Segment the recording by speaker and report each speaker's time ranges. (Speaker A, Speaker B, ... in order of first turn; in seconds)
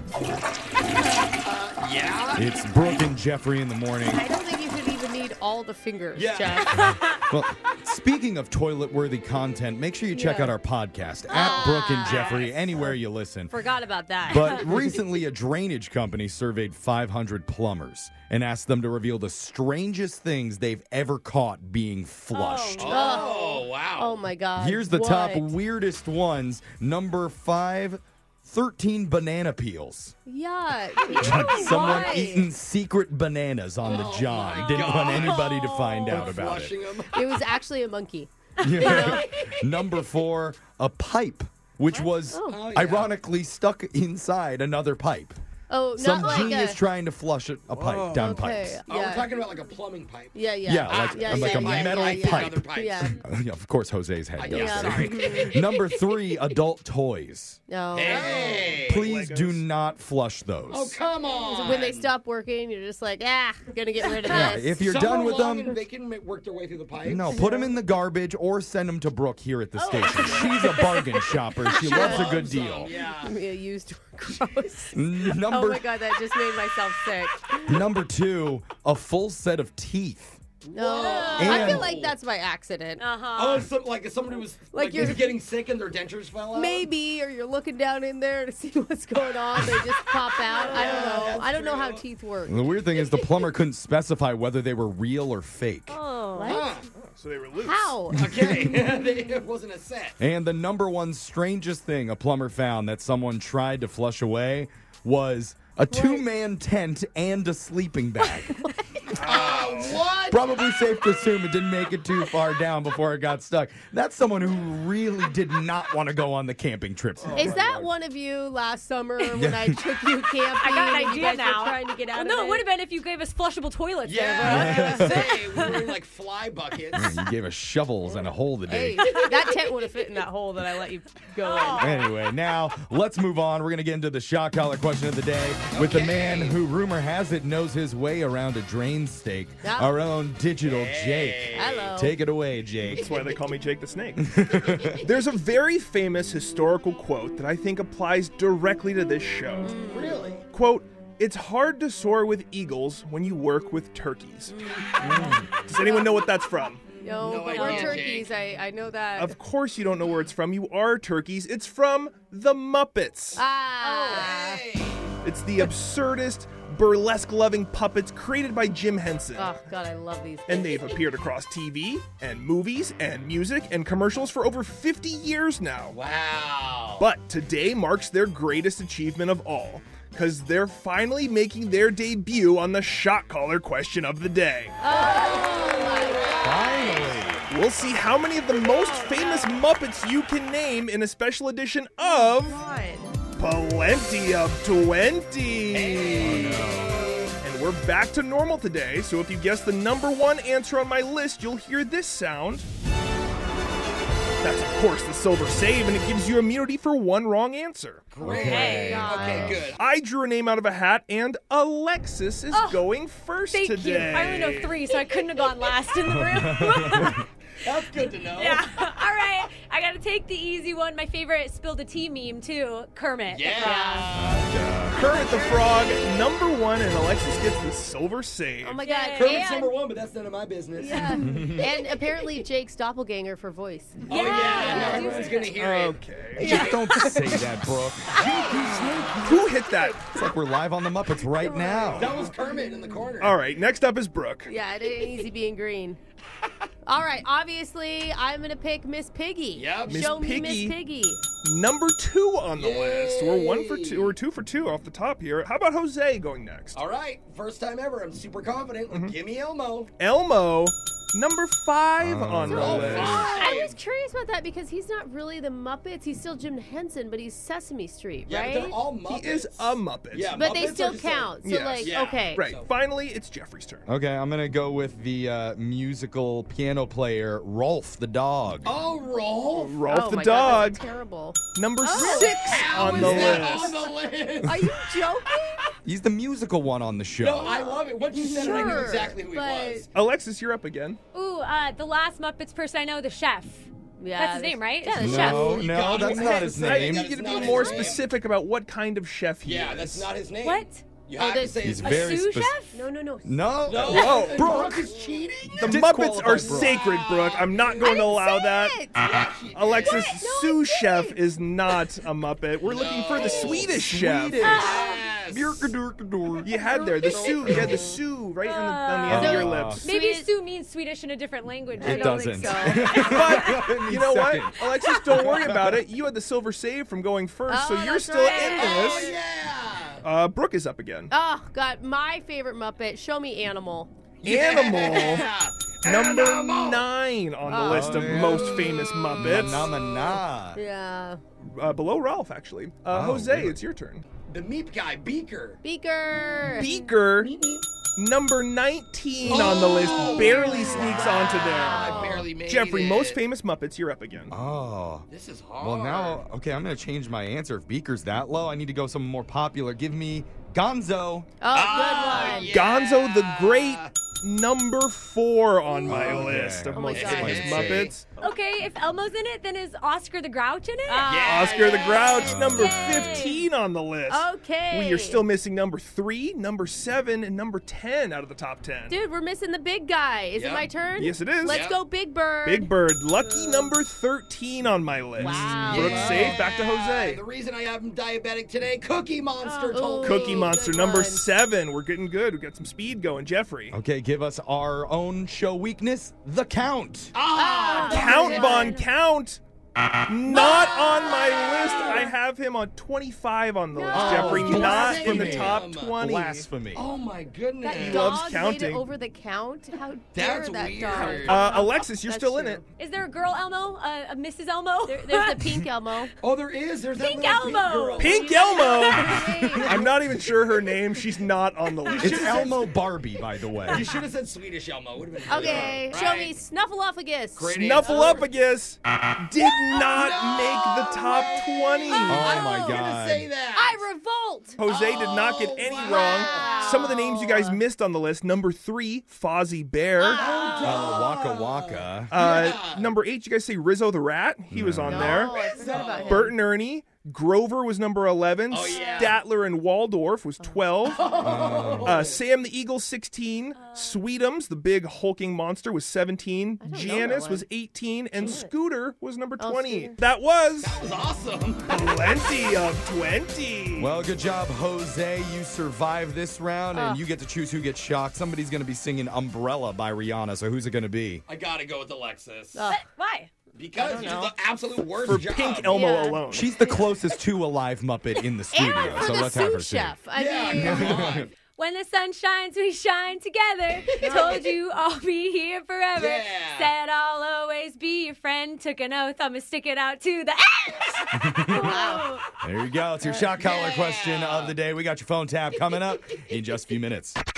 Speaker A: 1.4-2.5, 6.1-7.0, 12.1-12.6, 22.8-24.2, 33.8-37.3, 38.7-40.1, 42.5-43.1, 46.2-46.5, 47.7-53.1, 54.4-55.6, 57.9-59.1, 60.7-62.1, 64.8-67.3, 70.2-70.8, 71.7-73.4, 80.6-82.2, 83.3-86.8, 90.4-92.0, 96.4-96.9, 98.1-100.2, 109.1-110.5, 124.0-127.2, 135.7-136.6, 140.6-141.9, 142.9-143.4, 144.5-145.0, 149.8-150.4, 156.8-158.3, 163.8-165.2, 175.9-177.1, 184.9-186.9, 195.7-197.3, 208.1-209.8, 217.6-218.6, 223.3-224.5, 229.1-231.2, 234.1-236.8, 238.1-239.4, 241.9-243.4, 249.5-250.2, 252.5-254.2, 256.7-259.9, 262.5-263.7, 268.2-272.7, 278.6-279.8, 282.0-284.6, 287.2-289.9, 296.8-298.1, 299.4-302.2, 303.7-305.7, 306.4-308.0, 308.9-310.2, 312.6-313.8, 314.4-315.7, 328.5-330.0, 334.2-336.9, 339.5-339.9, 344.1-345.6, 347.1-347.7, 349.2-353.2, 355.1-356.2, 361.5-364.0, 366.8-367.9, 371.0-372.4, 380.4-380.7, 381.4-381.8, 385.5-390.6, 397.1-398.7, 400.4-402.1, 404.0-405.9, 406.7-408.1, 410.1-411.6, 416.2-418.3, 421.8-422.7, 423.6-426.4, 427.4-428.3, 429.7-433.9, 434.6-436.7, 440.1-442.9, 444.9-446.3, 448.5-449.2, 450.9-452.2, 460.6-461.9, 471.3-472.7, 473.5-475.9, 480.1-481.3, 485.9-486.7, 493.4-494.5
Speaker B: 2.3-4.2, 6.8-13.6, 14.3-22.9, 24.6-30.1, 31.2-36.8, 38.6-45.4, 46.0-48.8, 50.6-57.6, 58.8-61.0, 64.2-65.8, 67.0-72.9, 74.9-75.9, 77.7-80.4, 81.4-81.9, 92.4-96.0, 98.1-98.8, 100.2-108.6, 110.3-117.9, 119.3-119.8, 124.4-125.4, 126.9-129.2, 131.8-143.1, 144.2-145.0, 155.0-155.6, 186.4-187.5, 196.2-197.1, 208.2-209.6, 216.1-217.2, 224.1-225.0, 231.2-231.6, 236.4-238.3, 240.1-242.1, 262.0-263.3, 273.9-278.7, 282.8-283.6, 285.8-287.6, 295.0-297.1, 301.6-302.5, 303.2-304.9, 305.5-306.8, 313.6-316.5, 319.1-319.9, 321.8-325.8, 337.6-338.6, 339.1-340.6, 342.9-343.6, 354.3-355.1, 355.6-361.3, 365.8-367.9, 372.2-373.3, 393.7-397.1, 403.9-406.9, 422.0-423.9, 432.1-433.3, 440.6-442.1, 444.5-445.3, 451.2-452.0, 463.8-471.2, 476.3-480.0, 480.5-481.3, 491.2-491.8, 492.4-497.2
Speaker C: 4.1-7.0, 10.1-10.5, 11.3-12.5, 13.5-14.9, 22.8-25.6, 30.2-32.5, 37.1-39.2, 42.0-42.6, 45.7-46.8, 48.2-49.3, 50.3-53.2, 54.5-55.6, 57.7-58.6, 61.6-64.8, 67.3-67.8, 69.8-77.8, 80.7-83.0, 84.7-85.4, 86.5-92.8, 95.9-96.7, 97.6-98.2, 105.9-106.3, 108.5-109.0, 117.3-122.7, 128.7-132.1, 139.6-139.9, 141.5-142.2, 149.6-150.2, 154.5-156.3, 157.0-159.3, 163.3-164.6, 169.3-170.9, 184.8-187.2, 188.5-189.6, 192.0-193.1, 208.6-209.6, 223.6-224.0, 225.0-225.9, 228.6-229.5, 230.8-235.4, 236.4-240.0, 241.3-243.0, 244.5-246.0, 246.8-251.2, 262.5-268.8, 270.4-272.4, 279.8-282.7, 283.6-283.8, 284.4-285.6, 287.4-289.9, 294.0-297.9, 301.2-301.9, 302.7-305.1, 307.8-309.0, 309.9-311.2, 314.4-315.0, 316.4-317.9, 319.1-320.3, 321.8-323.4, 327.5-329.1, 331.1-333.9, 337.4-339.1, 340.5-341.2, 345.6-346.7, 349.6-352.3, 361.4-362.6, 365.7-367.7, 370.9-373.2, 374.1-375.2, 378.9-383.7, 385.2-386.4, 389.5-391.2, 397.3-398.8, 400.3-402.1, 403.7-405.1, 407.6-412.6, 414.9-416.1, 418.0-420.0, 425.3-428.1, 431.9-432.8, 433.6-434.6, 435.8-437.6, 440.0-441.0, 444.8-446.4, 456.6-457.4, 458.1-458.5, 459.4-459.9, 466.7-467.0, 472.5-472.8, 473.8-474.3, 475.7-476.9, 478.5-481.1, 484.0-484.5, 491.5-492.2
Speaker D: 22.3-23.5, 31.1-32.2, 34.9-36.1, 81.0-81.7, 83.0-83.7, 96.3-96.7, 120.6-125.9, 129.0-129.5, 131.4-132.1, 208.3-209.1, 212.5-212.9, 213.5-217.3, 218.2-224.0, 228.8-229.8, 234.1-235.6, 291.1-295.5, 300.4-300.9, 301.8-302.8, 318.4-323.6, 328.2-329.0, 362.1-362.5, 368.2-371.1, 372.5-373.4, 397.7-398.8, 411.0-411.6, 412.8-415.6, 416.9-419.2, 448.8-449.1, 453.6-454.0, 472.7-473.3, 481.6-492.2
Speaker E: 58.0-59.6, 96.9-98.0, 109.1-110.0, 143.0-144.3, 145.0-149.8, 150.5-154.6, 155.6-156.8, 157.7-158.0, 159.2-163.4, 165.2-169.6, 170.5-176.0, 177.0-184.9, 187.5-192.6, 193.4-196.5, 197.4-202.7, 204.4-208.1, 209.8-214.7, 224.9-228.8, 235.5-236.5, 239.2-240.0, 243.2-244.5, 249.9-250.8, 251.4-256.8, 258.9-259.1, 260.0-263.3, 269.1-270.5, 271.4-273.9, 279.5-280.8, 281.5-283.8, 289.9-291.0, 295.6-300.1, 303.8-304.5, 305.6-308.9, 309.5-314.5, 316.4-319.9, 323.0-329.1, 330.0-331.1, 334.2-335.2, 335.8-339.7, 341.4-344.1, 346.5-347.3, 347.9-354.3, 362.4-368.1, 371.2-379.0, 381.0-381.6, 382.4-387.2, 390.0-393.8, 397.8-399.4, 400.1-406.5, 407.8-408.8, 410.9-412.6, 417.9-422.4, 427.4-432.3, 434.6-440.2, 442.1-451.1, 451.8-460.8, 461.7-463.9, 475.1-476.5